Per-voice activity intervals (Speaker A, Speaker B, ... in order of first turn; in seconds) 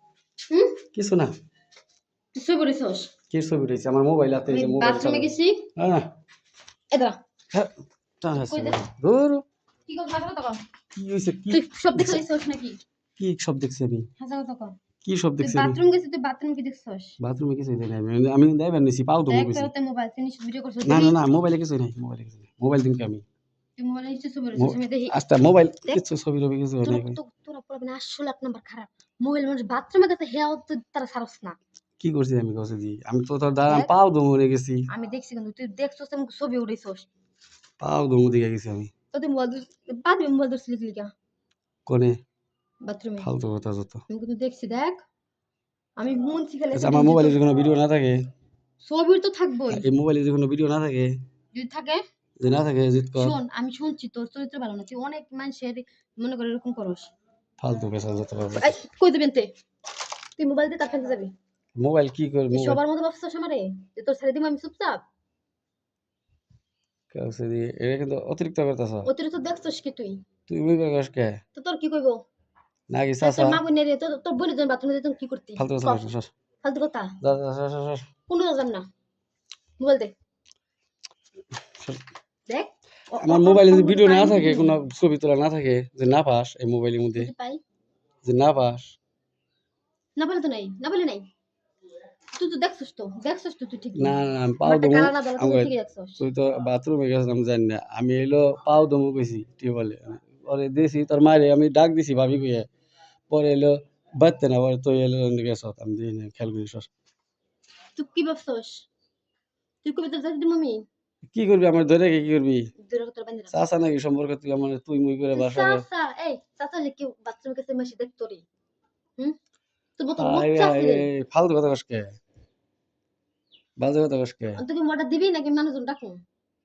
Speaker A: 0.5-0.8, 2.4-3.1, 4.5-5.7, 6.9-7.2, 8.3-8.8, 9.9-10.6, 11.5-12.8, 14.2-14.8, 15.4-17.2, 19.3-21.2, 23.8-25.2, 26.8-31.6, 33.7-33.9, 34.9-37.1, 39.1-41.1, 42.8-43.3, 44.1-45.0, 46.0-47.4, 48.8-49.9, 51.5-52.0, 53.2-57.1, 58.6-59.5, 60.4-61.3, 62.5-65.0, 69.0-70.2, 71.5-72.2, 73.2-76.1, 76.6-77.2, 78.3-78.9, 79.8-80.1, 82.5-84.8, 87.1-87.6, 90.2-91.3, 92.3-96.2, 108.0-108.8, 109.8-110.8, 112.8-113.7, 115.3-118.4, 120.0-121.1, 124.5-126.2
Speaker B: 0.9-1.3, 3.3-6.1, 7.5-9.4, 10.9-12.2, 13.2-14.1, 15.0-15.8, 17.2-19.7, 20.8-23.2, 24.6-27.2, 32.0-34.9, 37.8-38.9, 41.9-42.2, 43.2-44.0, 46.7-48.3, 49.7-51.1, 52.4-53.4, 57.6-58.8, 61.8-62.8, 67.1-69.1, 70.5-71.4, 72.9-73.6, 75.6-76.3, 77.2-78.1, 81.8-82.0, 83.2-87.3, 88.2-88.9, 94.0-102.7, 103.3-106.9, 111.2-112.7, 113.5-115.8, 120.2-122.1, 123.8-124.6